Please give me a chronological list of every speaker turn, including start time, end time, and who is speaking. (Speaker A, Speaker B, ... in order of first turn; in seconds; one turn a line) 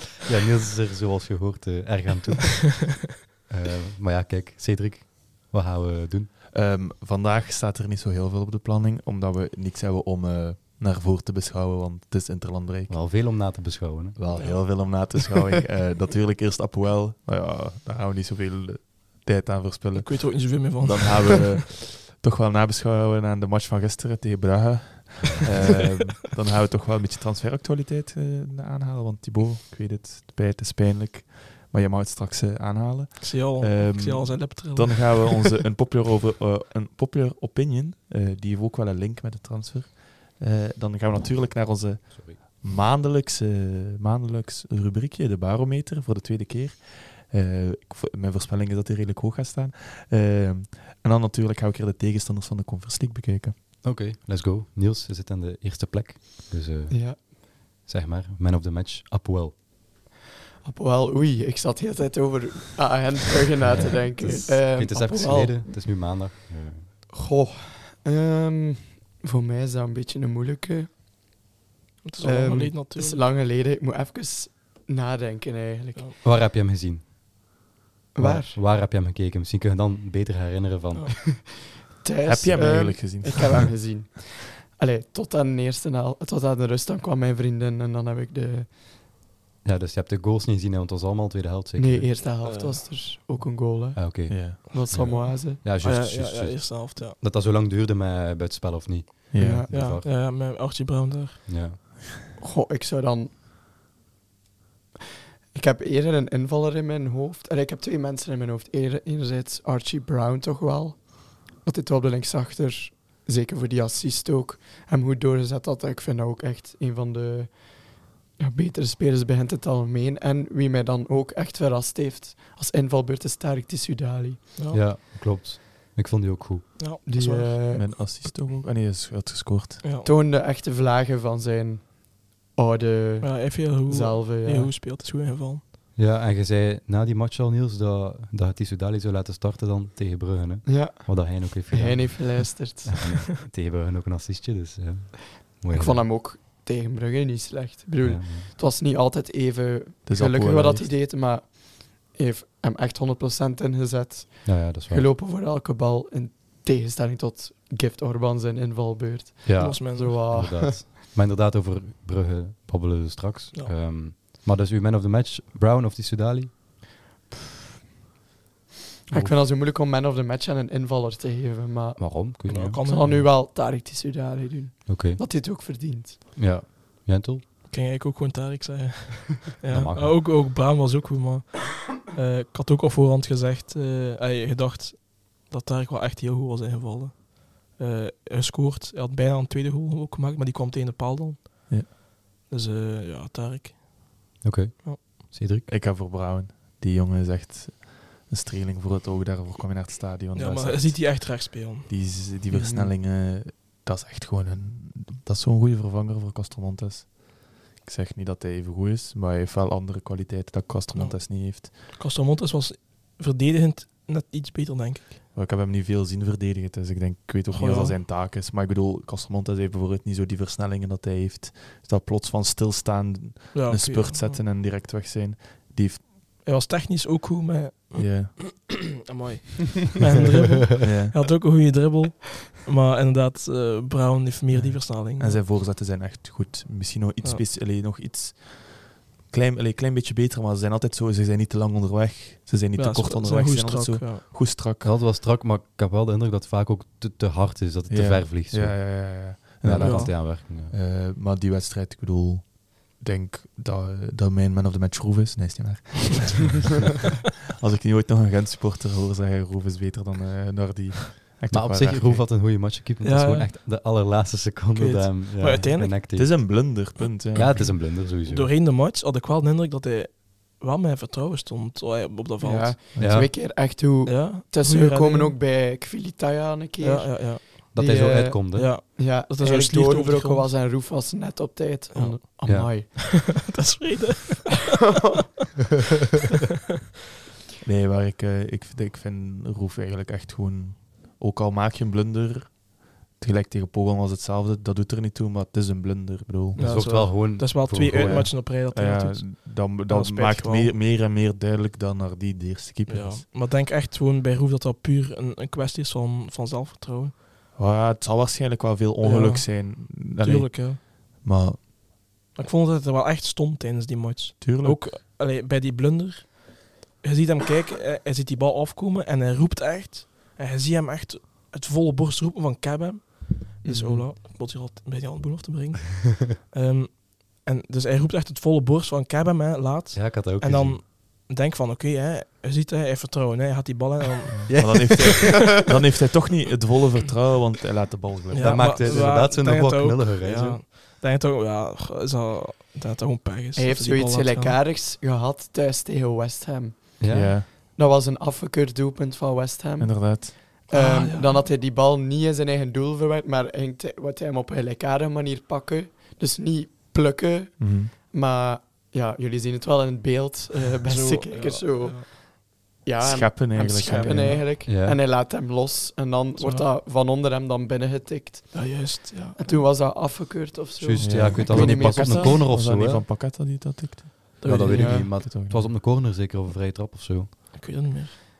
Speaker A: 0.3-6.3
Speaker B: 6.5-13.0
Speaker A: 12.9-14.2
Speaker B: 14.2-53.5
Speaker C: 14.3-14.7
Speaker C: 19.9-21.6
Speaker C: 33.2-35.5
Speaker A: 53.8-59.6
Speaker D: 56.9-57.2
Speaker D: 60.6-65.6
Speaker A: 63.6-66.9
Speaker D: 67.1-70.9
Speaker C: 72.0-73.2
Speaker D: 72.2-76.1
Speaker A: 76.2-77.6
Speaker D: 78.2-78.6
Speaker A: 78.2-81.2
Speaker D: 82.0-88.7
Speaker B: 82.2-83.7
Speaker A: 89.6-92.1
Speaker D: 91.8-95.6
Speaker C: 92.4-92.8
Speaker A: 94.0-100.1
Speaker B: 94.3-94.6
Speaker C: 95.8-97.2
Speaker B: 99.3-99.7
Speaker D: 99.3-99.7
Speaker C: 99.7-101.5
Speaker A: 101.5-101.8
Speaker D: 102.4-103.3
Speaker D: 105.5-124.5
Speaker C: 124.6-124.8
Speaker A: 124.7-126.7
Speaker C: 126.8-127.5
Speaker D: 127.1-127.9
Speaker B: 127.7-129.8
Speaker C: 129.8-130.1
Speaker D: 130.0-134.7
Speaker C: 133.2-135.6
Speaker A: 136.0-146.1
Speaker D: 140.7-143.1
Speaker D: 145.6-160.8
Speaker A: 148.0-148.5
Speaker B: 150.1-150.9
Speaker A: 154.4-155.1
Speaker A: 159.4-166.6
Speaker C: 159.6-160.2
Speaker D: 169.1-176.2
Speaker A: 172.0-173.2
Speaker C: 172.5-173.1
Speaker A: 174.9-175.2
Speaker A: 176.4-177.4
Speaker C: 177.7-194.1
Speaker A: 179.7-180.2
Speaker A: 194.4-195.7
Speaker B: 195.7-211.7
Speaker C: 200.3-201.9
Speaker D: 202.5-202.9
Speaker C: 210.9-215.2
Speaker B: 215.3-226.1
Speaker C: 217.5-218.0
Speaker C: 223.5-224.4
Speaker C: 226.4-235.5
Speaker B: 227.9-228.3
Speaker B: 230.8-231.3
Speaker B: 234.5-244.9
Speaker C: 242.8-244.3
Speaker A: 244.8-250.7
Speaker B: 247.9-262.2
Speaker C: 249.8-250.1
Speaker A: 261.5-266.6
Speaker C: 263.0-263.5
Speaker C: 264.8-266.0
Speaker B: 266.1-267.7
Speaker C: 267.0-272.8
Speaker A: 267.3-268.5
Speaker D: 272.4-283.2
Speaker B: 272.9-273.2
Speaker A: 273.0-273.3
Speaker C: 274.1-275.4
Speaker C: 276.8-277.8
Speaker A: 277.7-278.7
Speaker C: 278.5-280.5
Speaker C: 281.9-282.2
Speaker A: 282.5-282.7
Speaker C: 282.7-285.0
Speaker B: 287.6-297.0
Speaker A: 296.6-298.3
Speaker C: 296.6-300.7
Speaker B: 297.9-303.2
Speaker C: 302.9-307.1
Speaker B: 307.6-311.7
Speaker C: 309.0-310.8
Speaker C: 312.3-334.9
Speaker B: 314.4-314.9
Speaker D: 323.6-324.1
Speaker A: 329.9-330.8
Speaker B: 334.3-339.1
Speaker A: 334.5-335.3
Speaker C: 338.3-344.6
Speaker A: 338.4-340.6
Speaker D: 343.6-372.4
Speaker A: 347.0-347.4
Speaker B: 347.1-347.5
Speaker B: 349.8-350.4
Speaker C: 350.7-351.4
Speaker B: 357.6-357.9
Speaker C: 360.9-362.1
Speaker B: 363.0-364.5
Speaker C: 364.0-364.4
Speaker A: 364.6-365.0
Speaker C: 366.4-366.7
Speaker C: 368.5-369.6
Speaker A: 370.8-373.1
Speaker B: 371.0-375.7
Speaker C: 374.4-375.0
Speaker A: 374.4-377.3
Speaker D: 374.7-375.1
Speaker C: 377.5-378.2